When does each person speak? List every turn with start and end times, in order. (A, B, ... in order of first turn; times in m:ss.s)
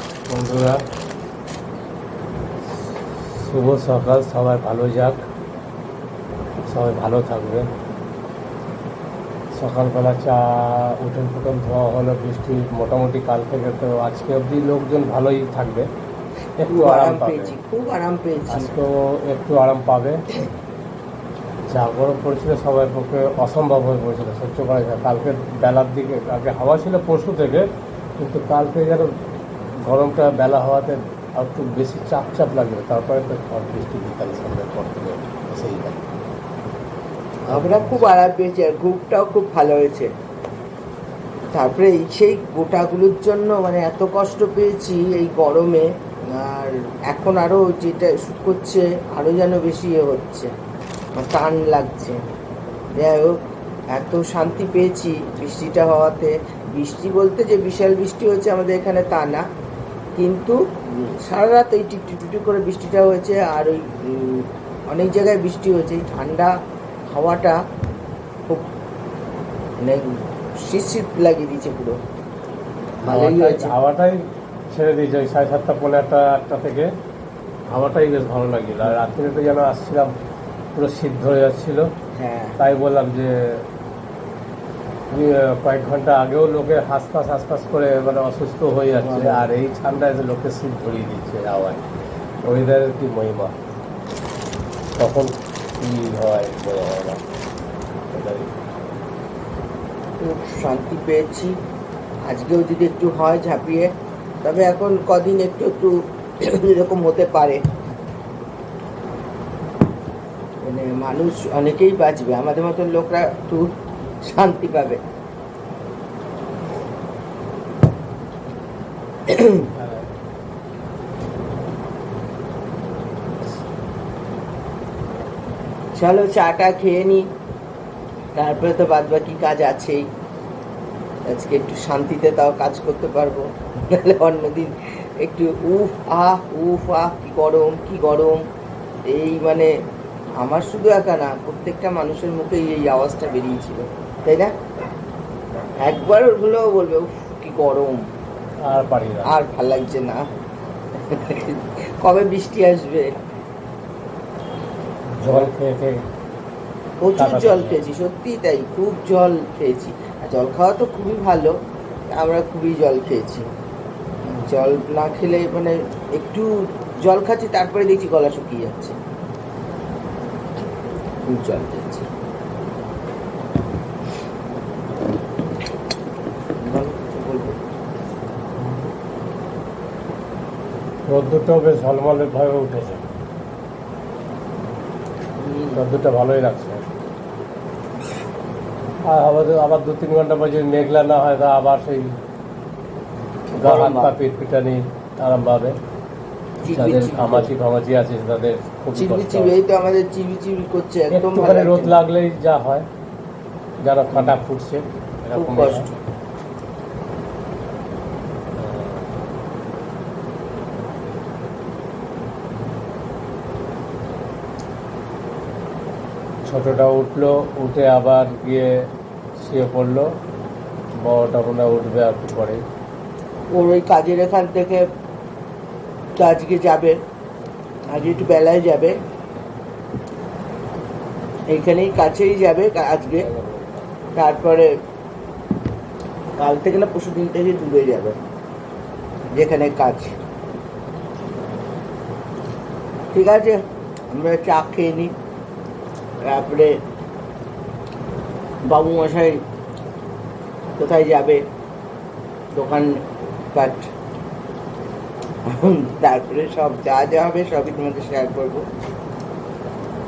0:00.3-0:00.8 A
0:03.1-0:05.2 A
0:06.7-0:07.7 A
0:09.5-0:15.9 A
0:16.6-0:17.6 A
0:16.7-0:18.7 B
0:18.5-0:20.2 A
0:21.7-0:27.7 A
0:28.2-0:29.1 A
0:29.8-0:36.0 A
0:37.5-0:40.1 B
0:37.5-0:37.9 A
0:41.5-0:45.9 B
0:46.4-0:50.5 B
0:51.2-0:52.2 B
0:53.0-0:53.4 B
0:53.9-0:59.4 B
1:00.2-1:06.5 B
1:07.1-1:07.6 B
1:10.6-1:12.0 B
1:13.0-1:13.7 B
1:13.1-1:14.2 A
1:14.7-1:16.9 A
1:17.7-1:20.1 A
1:20.8-1:21.9 A
1:22.2-1:22.5 B
1:22.6-1:23.3 A
1:25.1-1:31.8 A
1:29.0-1:29.5 B
1:32.4-1:33.6 A
1:35.0-1:37.2 A
1:38.1-1:38.5 A
1:40.2-1:41.5 B
1:42.3-1:43.9 B
1:44.4-1:47.6 B
1:50.6-1:53.6 B
1:54.3-1:55.0 B
1:59.3-1:59.6 B
1:59.7-2:00.1 A
2:06.0-2:07.2 B
2:08.4-2:10.0 B
2:11.3-2:18.4 B
2:19.1-2:19.7 B
2:20.4-2:24.5 B
2:25.8-2:28.0 B
2:28.7-2:29.4 A
2:29.3-2:30.2 B
2:31.1-2:33.1 B
2:35.1-2:36.0 A
2:37.0-2:41.5 B
2:37.2-2:37.8 A
2:42.1-2:43.4 B
2:44.3-2:46.5 B
2:47.0-2:49.0 B
2:51.3-2:52.1 B
2:56.6-2:57.6 B
2:58.6-2:58.9 A
3:01.1-3:03.0 A
3:05.4-3:05.8 B
3:05.8-3:06.8 A
3:09.0-3:12.2 A
3:13.5-3:14.1 B
3:13.6-3:15.8 A
3:16.6-3:17.5 B
3:16.7-3:19.6 A
3:19.0-3:22.0 B
3:21.1-3:22.9 A
3:23.8-3:25.9 A
3:25.4-3:26.0 B
3:28.6-3:29.0 A
3:36.5-3:38.7 A
3:39.4-3:40.1 A
3:41.0-3:42.6 A
3:43.5-3:44.9 B
3:46.2-3:47.0 B
3:47.9-3:49.0 B
3:51.5-3:53.3 B
3:53.2-3:53.8 A
3:54.2-3:54.7 B
3:56.4-3:58.2 B
3:59.3-4:00.2 B
4:03.1-4:03.6 B
4:04.1-4:05.1 B
4:06.2-4:06.7 B
4:08.6-4:09.4 B
4:10.8-4:11.4 B
4:12.6-4:12.9 B
4:13.5-4:13.9 B
4:15.5-4:18.6 B